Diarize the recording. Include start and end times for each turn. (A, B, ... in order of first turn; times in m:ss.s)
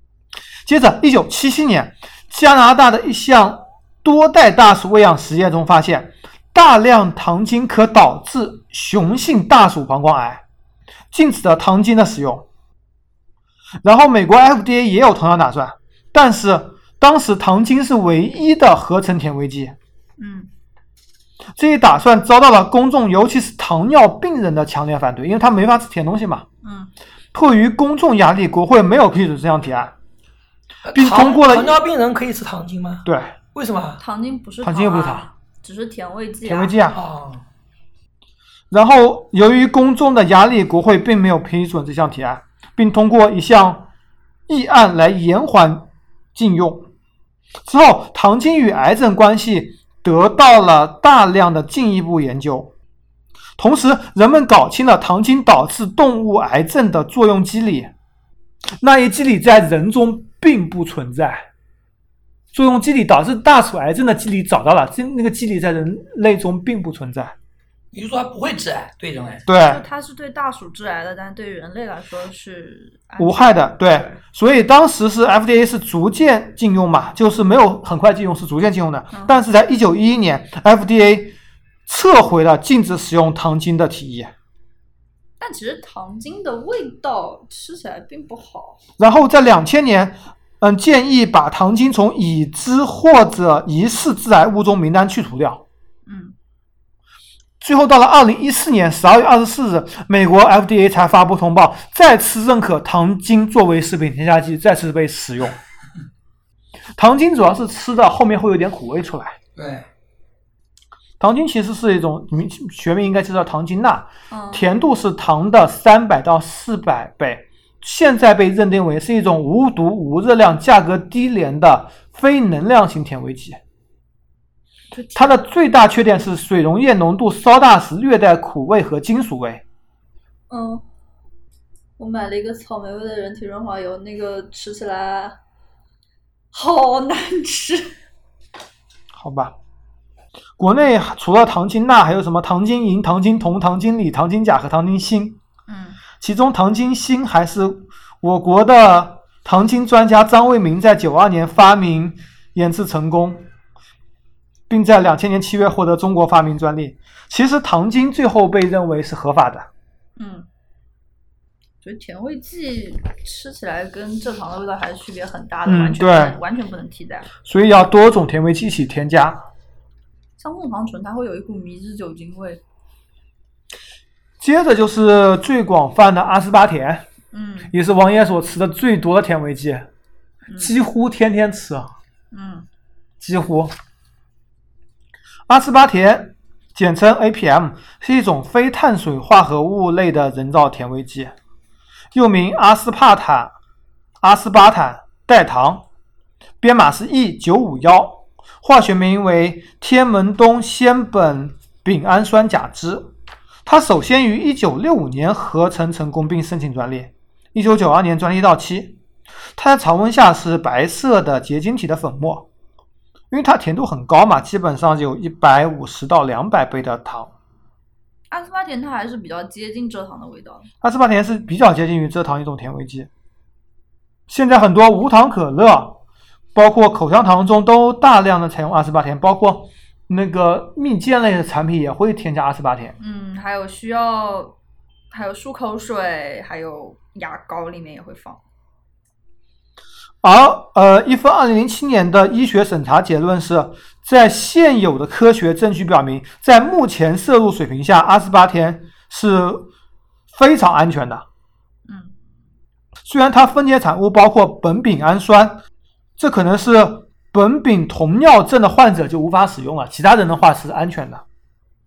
0:00.6-0:10.4 A
0:11.1-0:12.4 A
0:13.8-0:19.8 A
0:20.2-0:20.5 B
0:21.6-0:26.4 A
0:26.6-0:26.9 B
0:27.3-0:29.9 A
0:30.8-0:34.0 C
0:30.9-0:31.8 A
0:33.0-0:33.3 A
0:34.0-0:36.7 B
0:34.6-0:35.3 A
0:36.4-0:37.0 A
0:36.9-0:37.4 C
0:38.7-0:43.9 A
0:44.5-0:46.9 A
0:47.6-0:52.7 A
0:53.6-0:57.9 A
0:58.8-1:01.5 A
1:02.5-1:07.3 A
1:07.9-1:09.4 C
1:09.4-1:09.8 A
1:09.6-1:14.2 B
1:13.2-1:21.3 A
1:19.1-1:19.4 B
1:21.9-1:24.3 A
1:25.4-1:28.8 B
1:29.0-1:35.6 A
1:36.0-1:36.3 B
1:37.6-1:45.6 A
1:47.0-1:49.4 A
1:49.6-1:49.9 C
1:51.2-2:03.6 A
1:54.3-1:54.6 B
2:04.9-2:05.4 B
2:05.1-2:09.6 A
2:10.5-2:10.8 B
2:12.0-2:15.4 B
2:16.5-2:17.9 B
2:19.1-2:19.5 A
2:20.6-2:25.4 A
2:25.7-2:26.0 B
2:26.2-2:33.4 A
2:34.7-2:39.7 A
2:40.2-2:40.5 B
2:41.8-2:47.3 B
2:45.6-2:46.4 A
2:47.4-2:49.4 A
2:50.4-2:52.6 B
2:54.4-2:57.0 A
2:57.3-2:57.7 B
2:57.7-2:59.9 A
3:00.5-3:00.7 B
3:00.6-3:01.9 A
3:02.3-3:02.7 B
3:03.2-3:03.7 A
3:05.5-3:11.3 A
3:12.1-3:13.5 A
3:14.2-3:15.8 A
3:16.6-3:23.1 A
3:23.6-3:29.0 A
3:29.6-3:32.5 A
3:33.3-3:37.3 A
3:38.3-3:40.7 B
3:40.8-3:43.1 A
3:44.3-3:46.0 A
3:46.5-3:53.0 A
3:53.0-3:54.6 B
3:55.1-3:58.4 B
4:00.2-4:09.7 A
4:10.3-4:11.2 A
4:11.9-4:12.1 B
4:13.0-4:15.6 A
4:16.2-4:21.2 A